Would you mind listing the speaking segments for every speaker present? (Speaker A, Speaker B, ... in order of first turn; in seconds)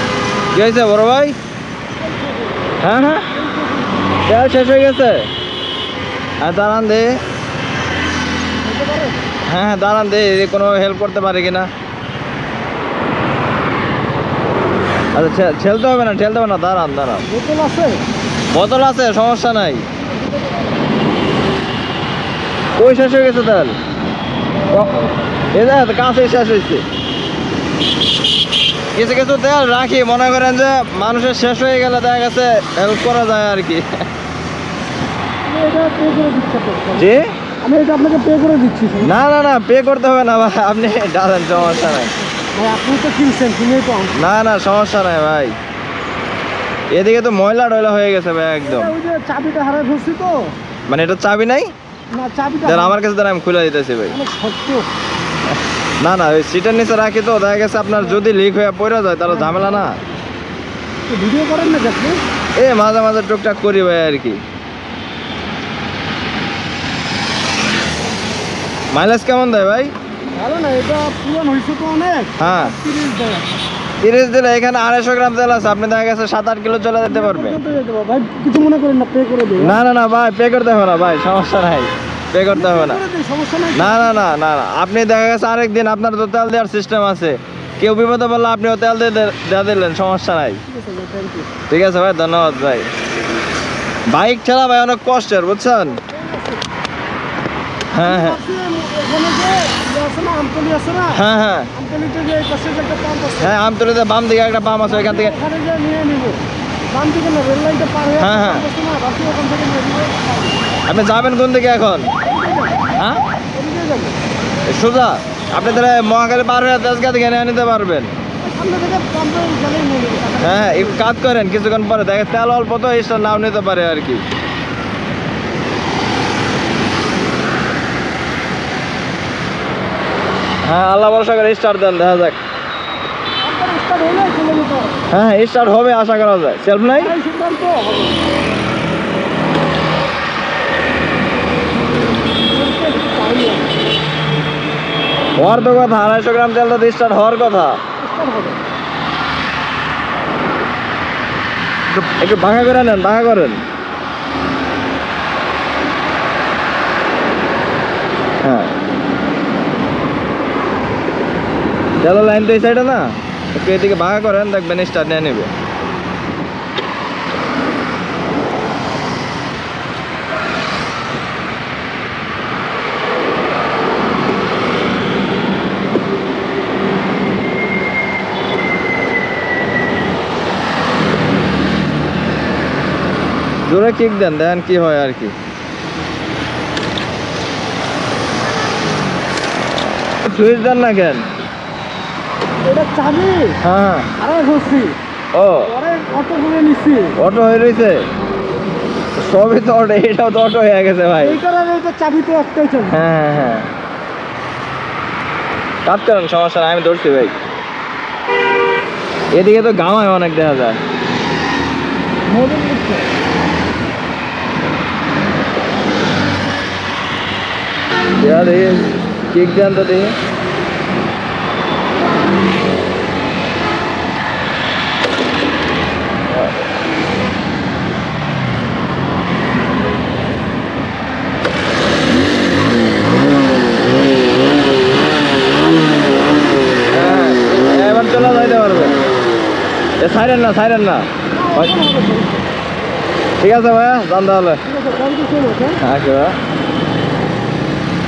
Speaker A: 0.5-1.3, 2.8-3.2, 4.3-5.3, 6.4-7.2, 9.5-11.7, 15.1-17.2, 18.5-19.8, 22.8-23.8, 24.7-26.8, 28.9-34.0, 36.9-37.3, 39.0-42.1, 44.1-45.5, 46.9-48.9, 50.9-51.7, 52.6-54.2, 56.0-60.0, 62.5-64.4, 68.9-69.9, 72.4-72.7, 74.0-77.6, 79.6-83.0, 83.7-90.6, 91.7-92.9, 94.1-96.0, 97.9-98.4, 101.1-101.7, 103.4-105.4, 108.2-108.7, 110.8-112.1, 113.0-113.2, 114.6-118.1, 120.4-124.2, 130.6-132.4, 135.1-137.1, 145.4-147.8, 151.9-153.6, 158.4-158.7, 162.0-165.5, 183.7-185.3, 190.2-191.3, 193.6-194.1, 195.3-195.7, 197.2-198.0, 199.2-201.4, 202.9-203.7, 205.8-207.3, 209.3-210.8, 218.2-220.1, 226.3-226.7, 236.9-239.0, 240.0-241.7, 243.4-244.6, 245.8-246.3
Speaker B: 2.0-2.5, 3.3-3.9, 8.6-9.2, 17.2-18.0, 35.5-39.1, 42.4-44.2, 48.6-50.5, 52.1-52.9, 54.1-54.9, 59.3-60.1, 61.1-62.2, 70.3-73.5, 77.1-79.7, 82.5-84.3, 90.7-91.5, 96.0-96.6, 98.0-101.2, 101.7-103.5, 104.9-110.6, 112.2-113.0, 113.5-114.2, 118.4-121.0, 133.4-135.0, 137.0-138.2, 142.5-143.7, 148.0-148.6, 192.6-193.6, 194.2-194.9, 195.7-197.2, 201.2-203.0, 241.3-242.4, 244.6-245.8